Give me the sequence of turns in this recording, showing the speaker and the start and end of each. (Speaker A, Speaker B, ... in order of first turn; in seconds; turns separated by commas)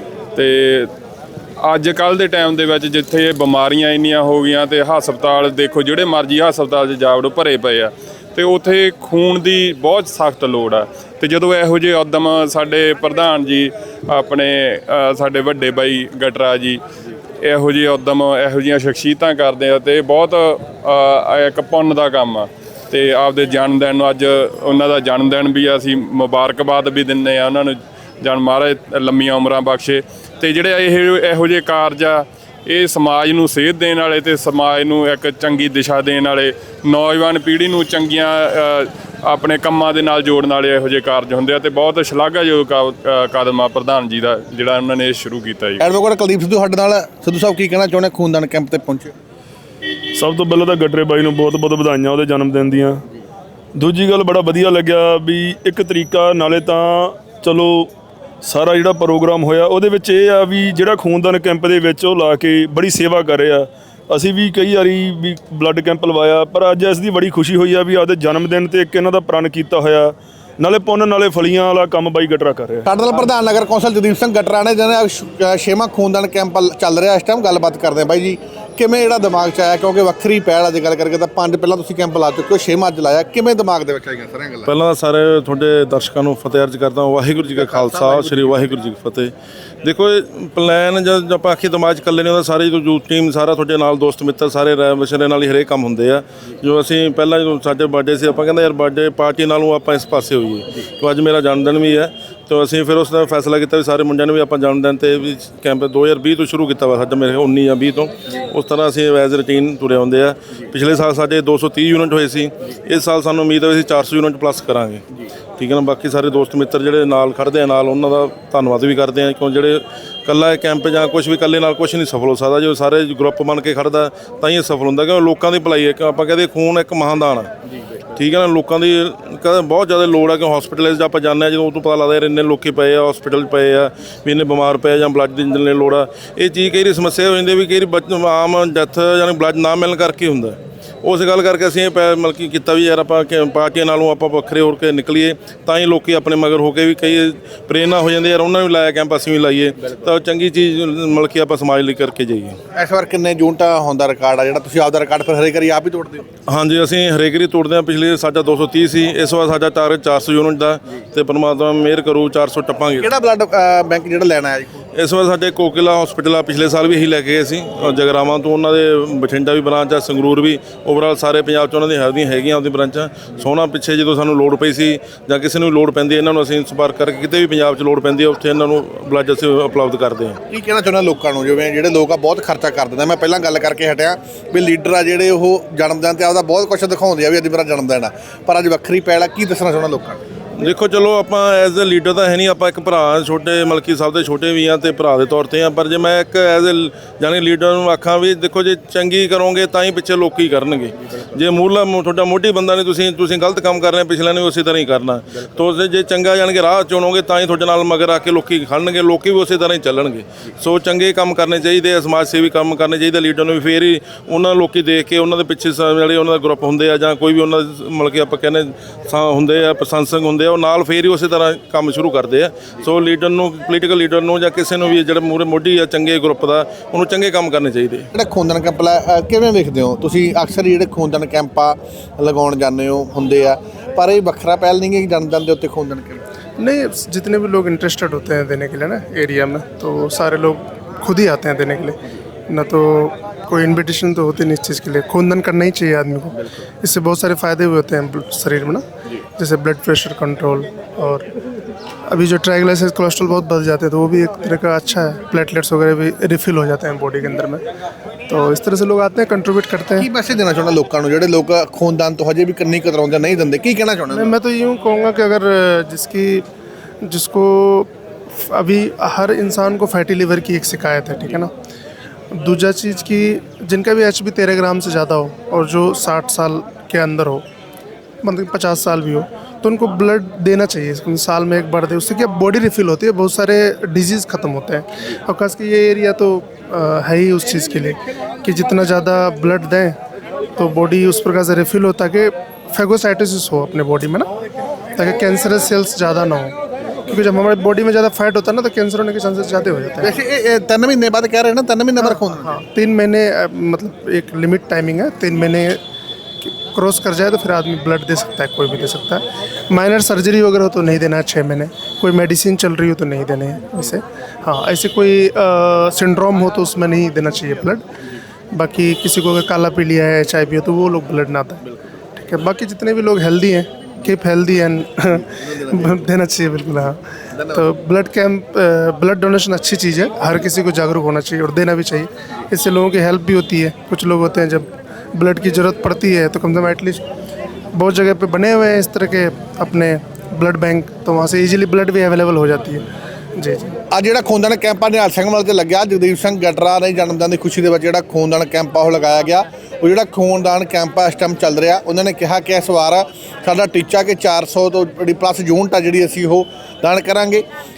Speaker A: 0.4-0.9, Speaker A: 1.6-16.8, Speaker A: 17.4-45.8, Speaker B: 45.8-49.1, Speaker C: 50.1-53.0, Speaker C: 53.8-57.9, Speaker C: 58.4-72.8, Speaker B: 72.9-84.7, Speaker D: 84.7-89.3, Speaker B: 87.6-88.7, Speaker D: 89.8-115.0, Speaker D: 115.6-127.5, Speaker D: 128.1-152.6, Speaker B: 152.8-156.3, Speaker D: 156.5-163.1, Speaker B: 163.0-164.8, Speaker D: 164.9-180.4, Speaker B: 180.5-190.2, Speaker D: 190.6-228.1, Speaker B: 228.1-236.2, Speaker E: 236.6-248.8, Speaker E: 249.4-251.3, Speaker E: 252.1-257.6, Speaker E: 258.3-260.1, Speaker B: 260.0-264.3, Speaker E: 264.1-266.4, Speaker E: 267.0-271.5, Speaker E: 272.3-277.4, Speaker E: 278.2-289.9, Speaker E: 290.6-294.3, Speaker E: 294.9-296.6, Speaker E: 297.1-300.1, Speaker B: 300.0-302.5, Speaker E: 302.0-305.8, Speaker E: 306.4-317.8, Speaker E: 318.5-321.6, Speaker E: 322.1-337.0, Speaker B: 325.4-325.7, Speaker B: 327.3-327.6, Speaker E: 337.7-342.8, Speaker E: 343.4-343.8, Speaker B: 343.9-357.4